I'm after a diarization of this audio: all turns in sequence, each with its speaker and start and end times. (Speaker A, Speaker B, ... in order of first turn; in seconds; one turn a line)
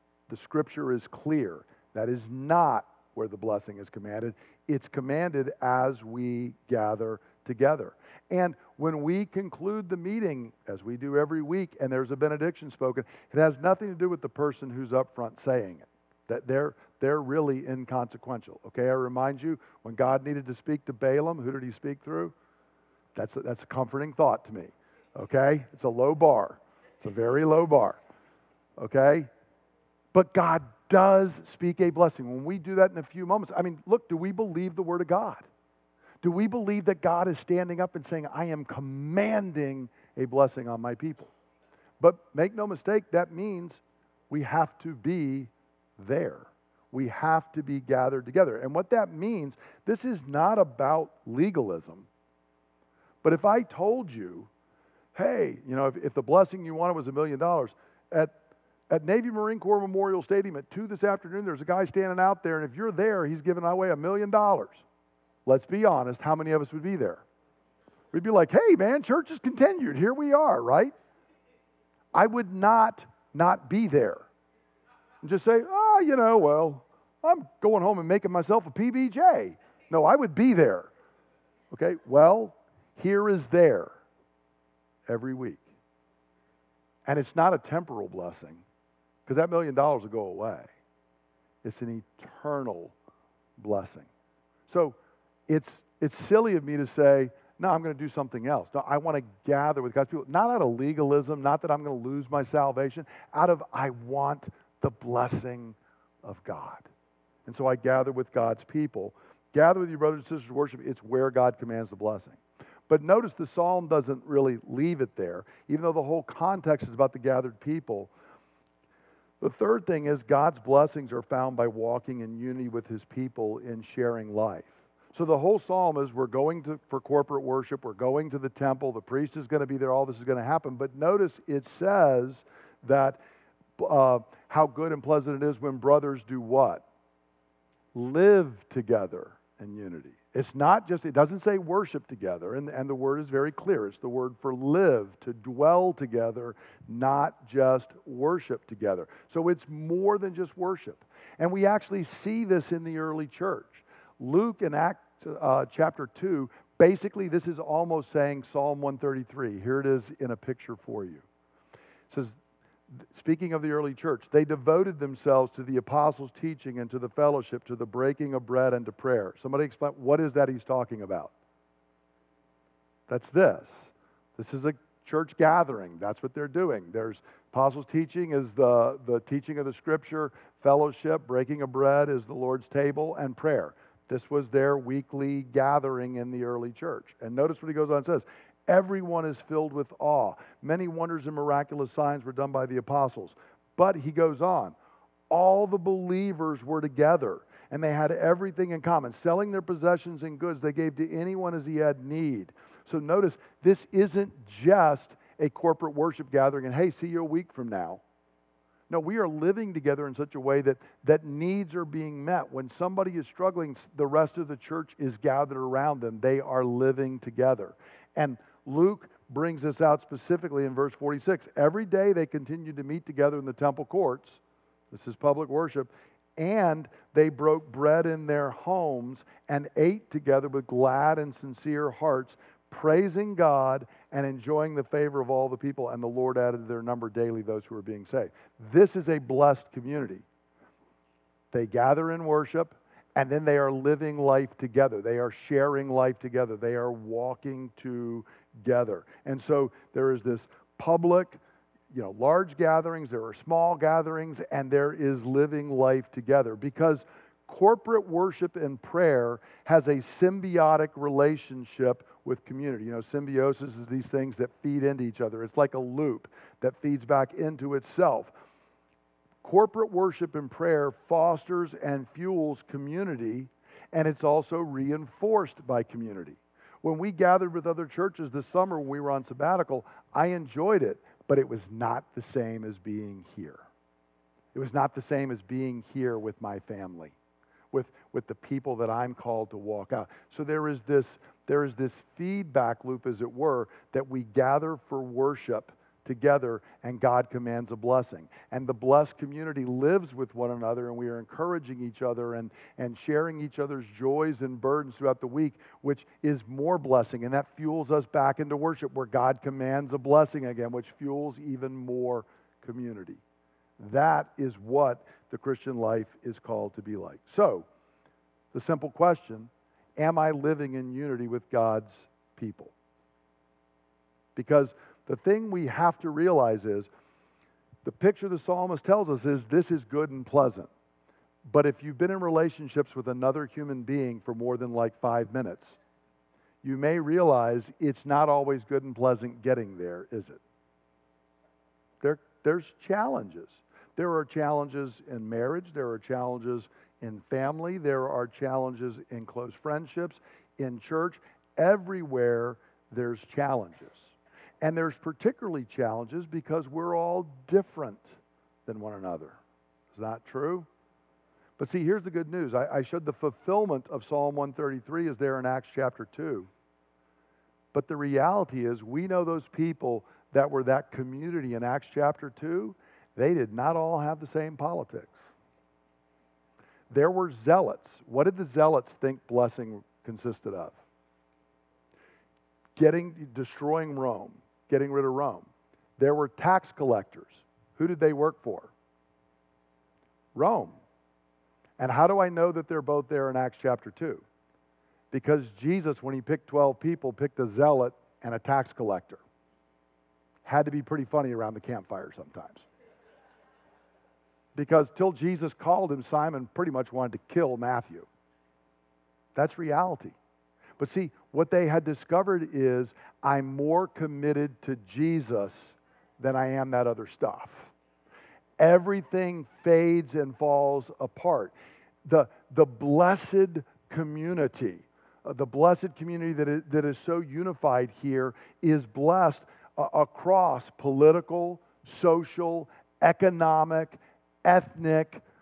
Speaker A: 0.3-22.3
Speaker A: 23.1-28.0
Speaker A: 28.8-29.3
Speaker A: 30.1-35.5
Speaker A: 36.2-41.3
Speaker A: 42.0-52.1
Speaker A: 53.2-54.5
Speaker A: 55.1-58.3
Speaker A: 58.9-64.8
Speaker A: 65.5-67.2
Speaker A: 68.1-70.9
Speaker A: 72.1-74.3
Speaker A: 75.2-80.9
Speaker A: 81.7-83.9
Speaker A: 85.1-85.7
Speaker A: 87.1-88.6
Speaker A: 89.3-90.7
Speaker A: 91.6-92.9
Speaker A: 93.6-94.1
Speaker A: 94.7-95.0
Speaker A: 95.5-106.9
Speaker A: 107.5-118.1
Speaker A: 119.4-133.2
Speaker A: 133.8-136.8
Speaker A: 137.9-161.2
Speaker A: 162.1-162.4
Speaker A: 162.9-171.3
Speaker A: 173.1-194.8
Speaker A: 195.3-208.0
Speaker A: 208.9-224.4
Speaker A: 224.9-240.2
Speaker A: 241.5-251.4
Speaker A: 251.9-268.3
Speaker A: 269.4-283.6
Speaker A: 284.5-287.2
Speaker A: 287.7-313.2
Speaker A: 313.8-317.7
Speaker A: 318.5-322.7
Speaker A: 324.4-326.9
Speaker A: 327.8-330.7
Speaker A: 331.4-335.8
Speaker A: 336.6-340.4
Speaker A: 342.0-359.4
Speaker A: 359.9-360.7
Speaker A: 361.6-366.5
Speaker A: 367.7-375.2
Speaker A: 376.9-380.8
Speaker A: 382.8-388.7
Speaker A: 390.4-390.8
Speaker A: 391.8-394.2
Speaker A: 395.1-399.2
Speaker A: 400.4-402.6
Speaker A: 404.6-408.1
Speaker A: 409.4-410.2
Speaker A: 410.8-417.7
Speaker A: 418.6-435.2